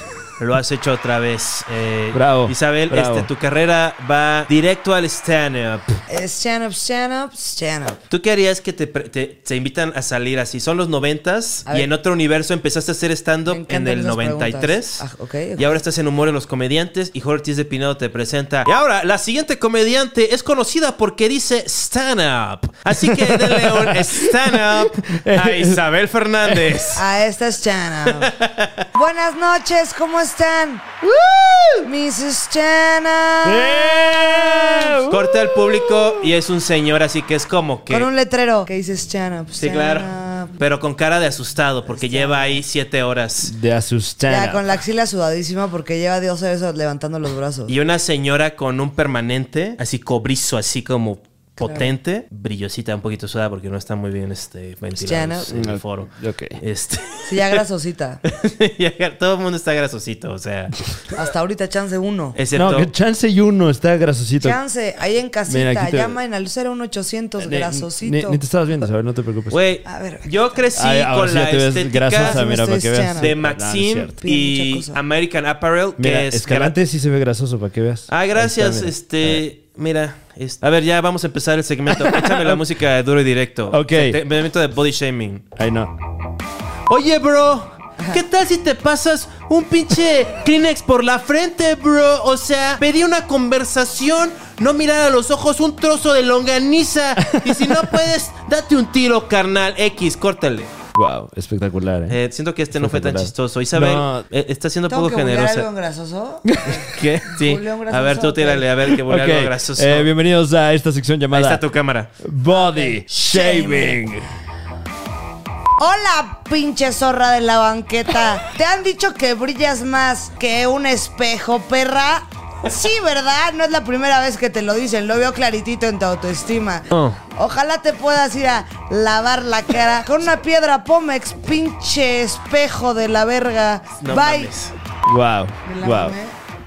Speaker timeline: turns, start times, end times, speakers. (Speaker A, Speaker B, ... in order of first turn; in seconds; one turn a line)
Speaker A: 0.4-6.0
Speaker B: 2.1-3.3
Speaker C: 6.1-8.0
Speaker A: 8.1-15.1
Speaker C: 13.5-15.7
Speaker A: 15.6-27.0
Speaker B: 22.9-25.8
Speaker B: 26.4-26.8
Speaker C: 26.9-28.3
Speaker A: 28.1-28.8
Speaker C: 28.9-30.9
Speaker B: 31.0-31.8
Speaker C: 31.8-35.0
Speaker B: 33.4-36.0
Speaker A: 35.1-38.1
Speaker C: 37.9-40.5
Speaker A: 39.6-43.5
Speaker C: 41.8-42.6
Speaker B: 43.4-44.6
Speaker C: 44.3-47.7
Speaker A: 47.7-57.6
Speaker C: 51.6-51.9
Speaker C: 55.0-55.5
Speaker B: 55.5-56.6
Speaker C: 57.2-58.2
Speaker A: 58.2-60.9
Speaker C: 61.1-62.4
Speaker A: 62.3-62.9
Speaker B: 62.5-64.6
Speaker C: 64.4-68.8
Speaker B: 65.5-66.2
Speaker B: 67.4-69.6
Speaker A: 69.5-72.4
Speaker C: 69.8-70.4
Speaker B: 70.7-74.2
Speaker C: 72.2-73.3
Speaker A: 73.2-76.8
Speaker C: 74.2-75.0
Speaker B: 76.0-79.4
Speaker A: 78.1-85.5
Speaker B: 81.9-82.6
Speaker B: 83.7-84.2
Speaker B: 85.5-85.9
Speaker A: 86.9-100.7
Speaker B: 97.2-98.0
Speaker B: 100.9-102.2
Speaker A: 102.1-105.7
Speaker B: 102.7-104.2
Speaker C: 104.9-108.7
Speaker B: 106.4-107.3
Speaker A: 106.9-110.1
Speaker B: 108.9-111.6
Speaker A: 111.3-112.1
Speaker B: 112.2-114.2
Speaker C: 112.5-114.0
Speaker C: 115.8-134.5
Speaker A: 126.9-127.2
Speaker A: 134.0-134.7
Speaker B: 135.0-136.2
Speaker C: 135.6-136.3